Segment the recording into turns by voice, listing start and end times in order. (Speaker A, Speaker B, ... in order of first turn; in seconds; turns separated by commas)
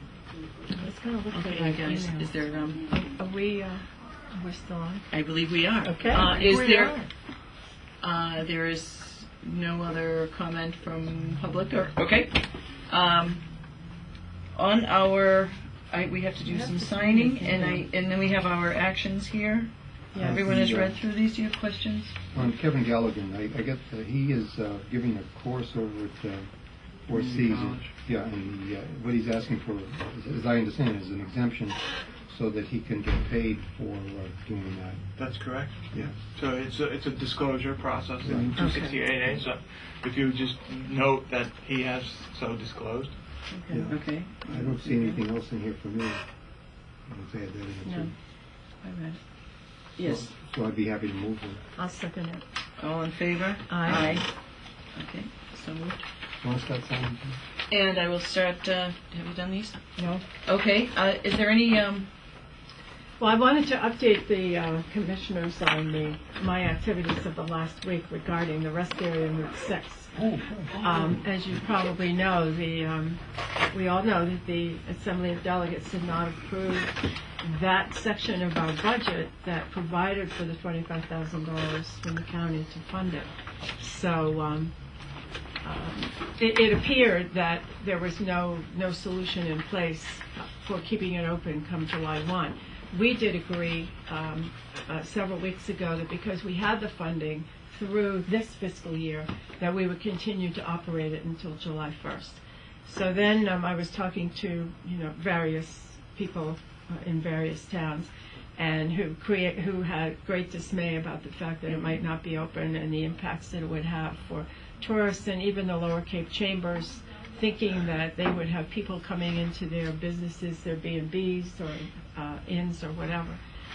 Speaker A: 0.8-5.1, Speaker B: 1.3-2.8, Speaker B: 5.1-7.0, Speaker A: 5.8-7.1, Speaker B: 8.0-13.4, Speaker B: 14.5-22.1, Speaker A: 16.5-17.9, Speaker A: 20.1-20.4, Speaker C: 20.1-21.0, Speaker C: 22.3-35.0, Speaker D: 27.1-27.9, Speaker D: 35.2-43.2, Speaker C: 38.2-38.6, Speaker A: 38.6-39.0, Speaker A: 43.5-43.9, Speaker C: 43.7-46.2, Speaker B: 43.7-45.2, Speaker C: 47.0-48.1, Speaker A: 47.8-48.1, Speaker A: 48.8-49.2, Speaker B: 50.0-50.3, Speaker C: 50.0-51.6, Speaker A: 51.8-52.4, Speaker B: 52.8-54.2, Speaker A: 53.7-54.2, Speaker B: 54.9-56.0, Speaker C: 56.4-57.4, Speaker B: 57.7-59.8, Speaker A: 60.0-60.2, Speaker B: 60.4-62.1, Speaker A: 63.2-70.2, Speaker C: 70.2-71.1, Speaker B: 70.8-71.2, Speaker A: 70.8-84.7, Speaker A: 85.6-123.4